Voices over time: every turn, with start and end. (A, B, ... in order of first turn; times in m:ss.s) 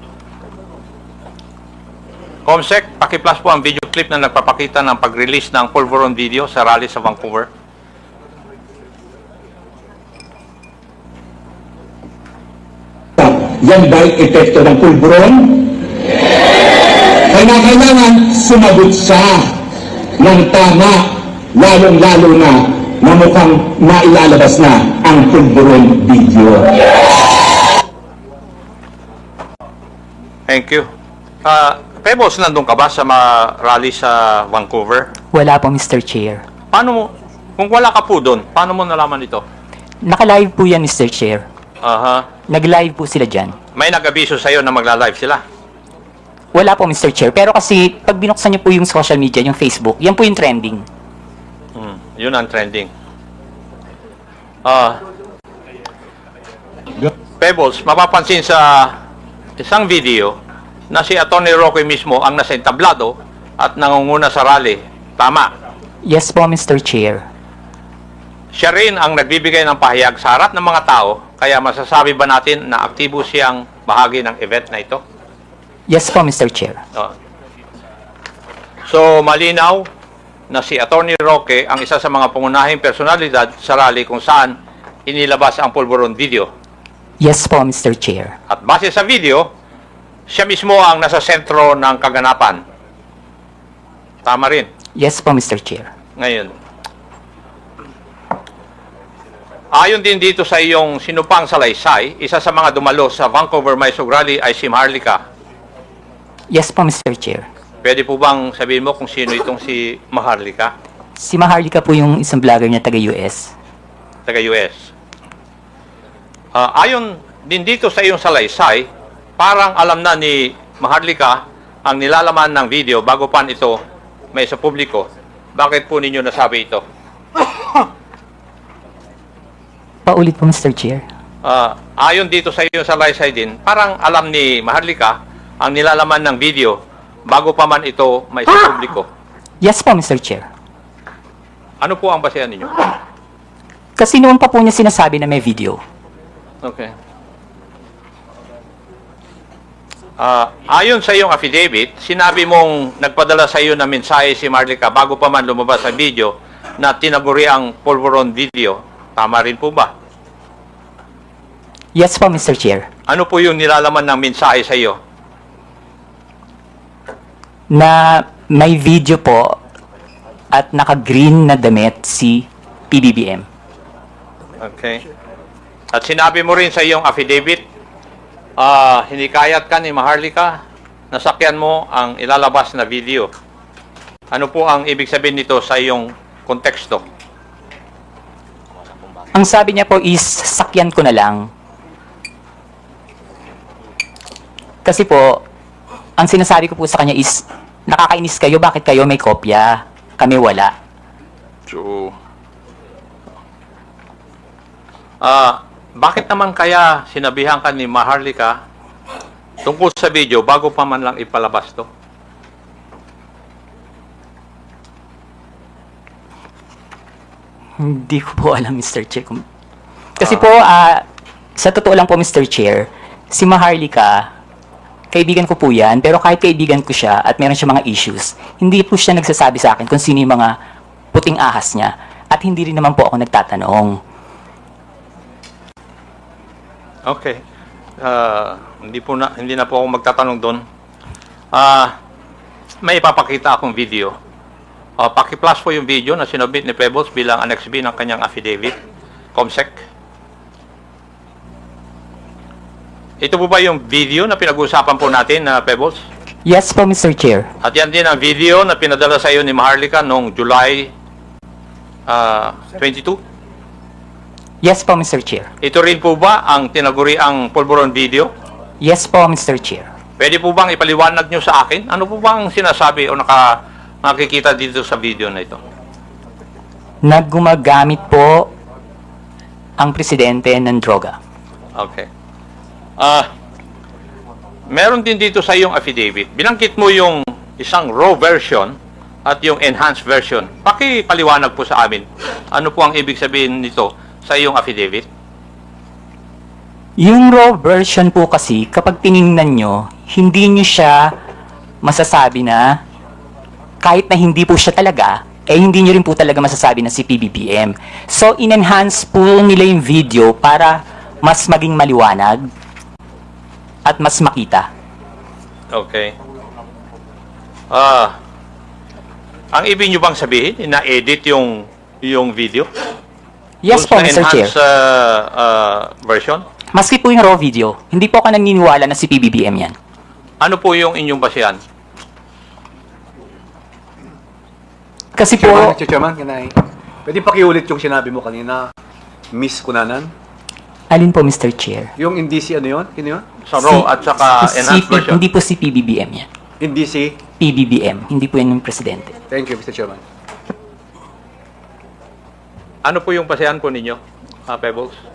0:02.5-0:07.5 A
0:13.2-0:15.8 B
0:17.3-0:19.6 B
0:20.2-0:26.8 B
0:30.5-0:30.9 A
0:31.4-0:35.1 A
0:35.3-0:36.4 C
0:36.7-0:39.4 A
0:40.0-0:41.4 C
0:41.8-0:42.3 A
0:42.5-0:43.6 C
0:43.8-0:45.4 A
0:46.5-0:50.9 C
0:51.8-0:52.9 A
0:54.6-0:55.0 A
0:57.4-0:59.0 A
0:59.6-1:00.4 A
1:00.9-1:05.5 A
1:06.0-1:07.2 C
1:08.5-1:15.0 A
1:15.9-1:16.8 C
1:18.9-1:19.9 A
1:20.5-1:24.6 A
1:25.1-1:26.5 A
1:27.2-1:28.4 C
1:28.5-1:29.5 A
1:30.3-1:32.6 A
1:34.2-1:34.7 A
1:35.0-1:35.9 C
1:36.2-1:36.6 A
1:39.7-1:45.2 A
1:46.5-1:47.5 C
1:47.8-1:50.7 A
1:51.2-1:53.5 C
1:54.3-1:54.9 A
1:56.6-1:58.9 A
1:59.4-2:03.8 A
2:04.3-2:06.8 A
2:10.1-2:11.0 C
2:11.4-2:19.1 A
2:19.6-2:20.5 C
2:21.8-2:22.7 A
2:24.0-2:25.8 C
2:26.6-2:26.9 A
2:30.2-2:39.9 A
2:42.0-2:42.9 C
2:43.1-2:45.0 A
2:47.7-2:49.6 C
2:50.5-2:53.5 C
2:54.6-2:55.0 A
2:55.9-2:57.6 A
2:58.6-3:00.6 A
3:01.1-3:03.3 A
3:04.3-3:07.0 A
3:09.3-3:11.5 C
3:14.8-3:15.4 C
3:16.2-3:20.7 C
3:21.7-3:22.1 A
3:25.2-3:28.6 A
3:29.6-3:31.9 A
3:37.8-3:39.4 C
3:40.2-3:41.0 C
3:41.6-3:44.3 C
3:45.1-3:50.5 C
3:51.1-3:54.0 C
3:57.0-3:57.4 A
3:58.0-4:00.6 A
4:01.5-4:02.0 A
4:02.8-4:04.2 A
4:05.0-4:08.8 A
4:09.4-4:09.8 A
4:13.2-4:16.0 A
4:16.4-4:17.5 C
4:17.6-4:20.9 A
4:22.1-4:23.2 A
4:24.6-4:25.5 C
4:25.6-4:28.3 A
4:28.8-4:29.9 C
4:30.2-4:35.6 A
4:37.0-4:38.5 C
4:39.8-4:41.2 C
4:41.8-4:42.1 A
4:43.0-4:43.3 A
4:44.7-4:48.8 A
4:49.2-4:55.1 A
4:57.0-5:01.2 C
5:01.8-5:02.8 C
5:03.8-5:12.5 C
5:13.8-5:14.7 C
5:15.7-5:16.2 A
5:17.7-5:18.2 A
5:19.5-5:22.7 A
5:23.6-5:24.5 C
5:23.7-5:26.4 A
5:26.7-5:29.8 C
5:30.4-5:31.6 A
5:35.2-5:35.8 C
5:35.4-5:38.7 D
5:39.3-5:40.1 D
5:40.9-5:41.9 C
5:42.0-5:43.2 D
5:43.5-5:45.2 A
5:43.6-5:46.3 C
5:46.6-5:47.2 D
5:47.4-5:49.2 C
5:49.3-5:50.0 D
5:52.8-5:55.0 A